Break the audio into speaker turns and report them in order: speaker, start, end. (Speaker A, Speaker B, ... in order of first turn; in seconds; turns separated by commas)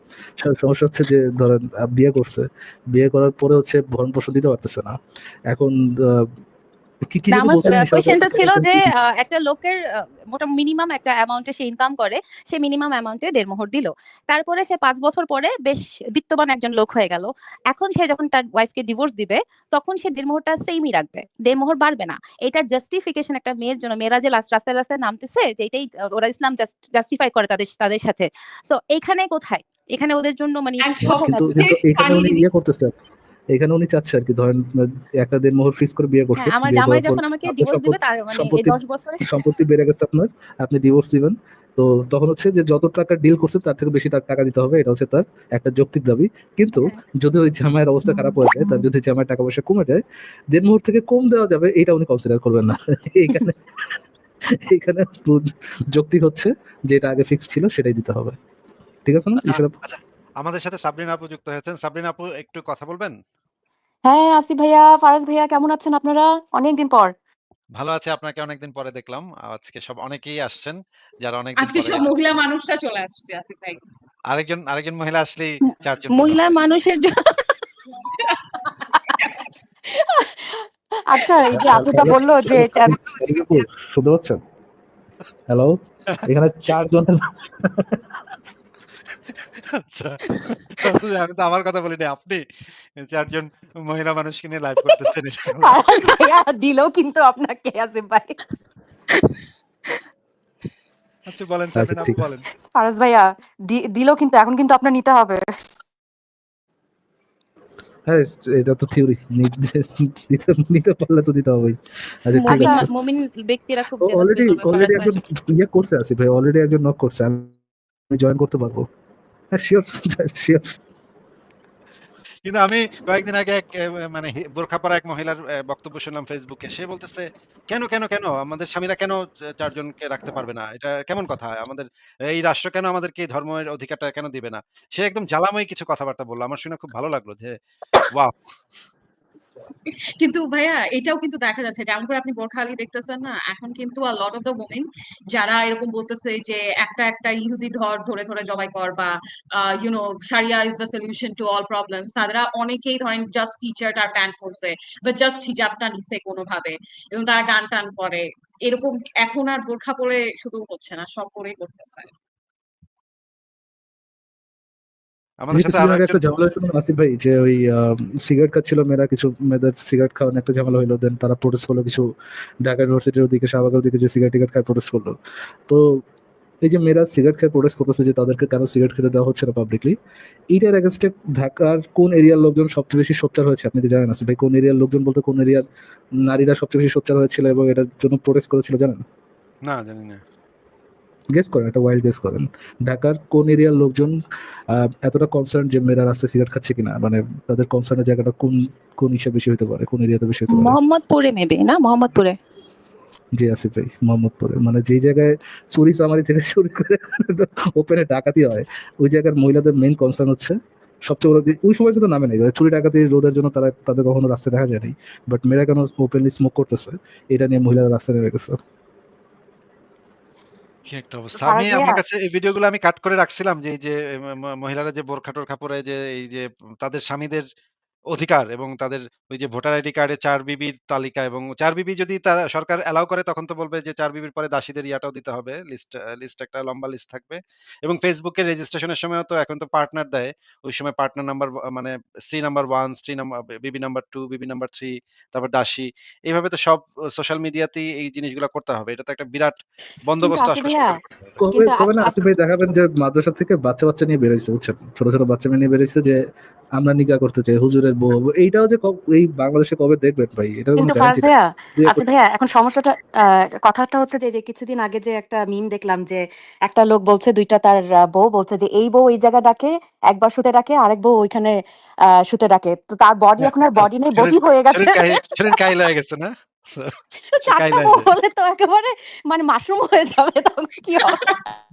Speaker A: 0.4-5.0, Speaker A: 5.5-6.3, Speaker A: 7.0-8.9, Speaker B: 7.3-31.6, Speaker C: 30.8-32.4, Speaker A: 31.0-33.0, Speaker A: 33.5-53.9, Speaker B: 36.4-39.4, Speaker B: 48.1-48.8, Speaker A: 54.7-58.4, Speaker A: 59.0-59.7, Speaker D: 59.4-63.1, Speaker E: 64.1-67.1, Speaker D: 67.8-72.1, Speaker C: 71.6-73.8, Speaker D: 74.3-76.4, Speaker B: 75.7-77.5, Speaker C: 78.0-78.5, Speaker C: 79.2-79.5, Speaker E: 79.9-83.0, Speaker A: 81.5-84.4, Speaker A: 85.5-88.2, Speaker D: 89.5-92.4, Speaker D: 93.0-95.9, Speaker E: 95.5-98.4, Speaker D: 101.3-102.5, Speaker A: 101.7-102.3, Speaker E: 102.7-105.4, Speaker A: 108.1-112.9, Speaker B: 112.4-115.2, Speaker E: 112.5-112.8, Speaker A: 114.0-117.5, Speaker A: 118.1-118.9, Speaker A: 119.5-120.8, Speaker D: 122.5-137.5, Speaker C: 140.2-162.1, Speaker D: 165.4-166.2, Speaker A: 165.5-172.1, Speaker A: 172.6-175.2, Speaker A: 175.7-176.0, Speaker A: 176.6-180.0, Speaker A: 180.5-185.7, Speaker A: 186.2-189.0, Speaker D: 189.7-190.2, Speaker A: 191.3-194.2, Speaker A: 194.7-200.8, Speaker B: 200.5-202.3, Speaker A: 203.3-218.6, Speaker D: 220.9-227.4, Speaker E: 221.3-222.0, Speaker D: 228.1-250.9, Speaker E: 250.2-251.0, Speaker A: 251.4-256.2, Speaker E: 251.5-252.3, Speaker A: 256.8-262.1, Speaker E: 260.8-271.6, Speaker E: 272.2-275.6, Speaker D: 273.4-276.9, Speaker E: 277.3-281.6, Speaker D: 277.5-278.1